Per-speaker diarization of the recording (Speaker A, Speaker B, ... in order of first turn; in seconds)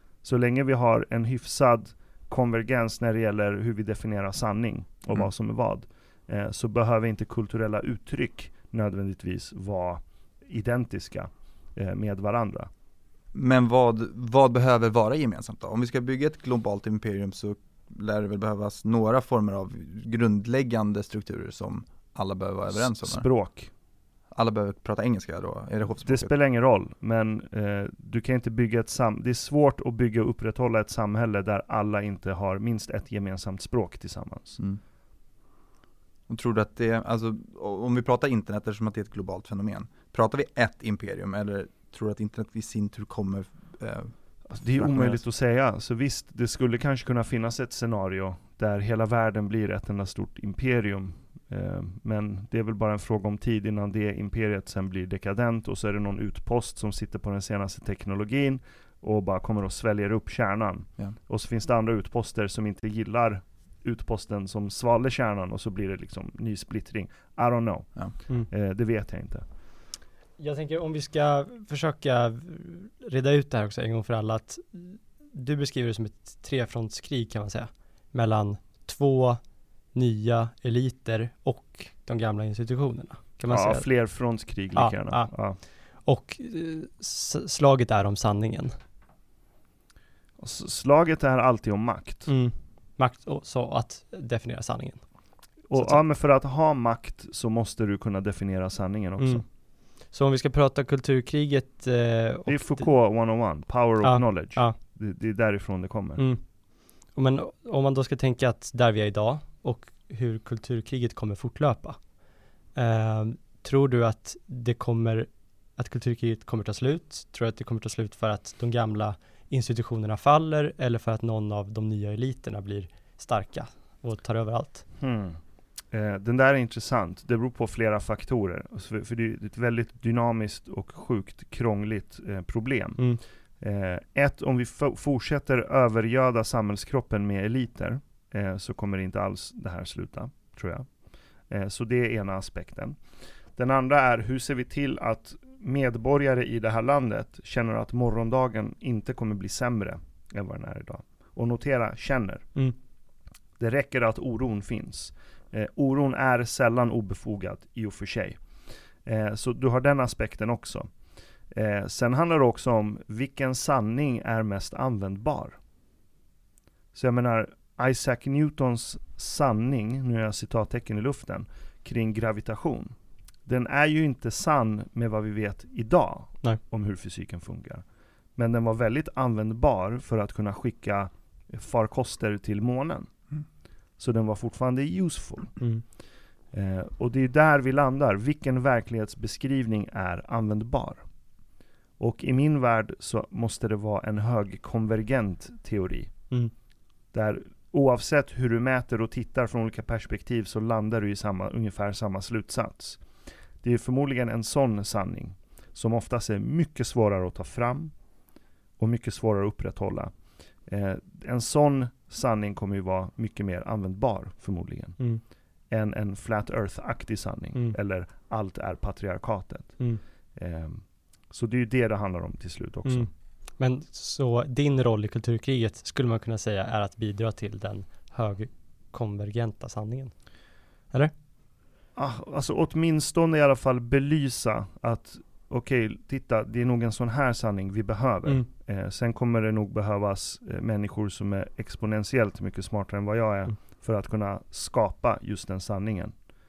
Speaker A: 0.2-12.7, 22.7-23.7, 26.0-34.6, 44.5-69.5, 83.5-85.6, 90.4-92.3, 95.7-99.4, 102.5-106.2, 125.0-125.4, 125.9-133.0, 133.6-140.9, 141.5-143.0, 143.6-152.5, 153.6-158.4, 159.1-160.9, 161.5-165.6, 166.9-172.9, 173.5-177.8, 178.4-183.1, 184.0-185.6, 186.5-191.0, 192.0-196.1, 197.1-203.0, 203.6-207.9, 208.8-210.1, 210.7-215.0, 215.7-219.8, 220.3-223.1, 232.0-246.2
Speaker B: 13.3-23.2, 24.3-26.3, 36.3-45.2
Speaker C: 70.4-79.4, 79.9-83.9, 84.8-88.8, 92.3-95.0, 95.7-96.0, 99.2-99.4, 100.1-102.9, 104.0-104.8, 106.2-106.4, 107.1-112.0, 112.8-124.9, 222.9-230.1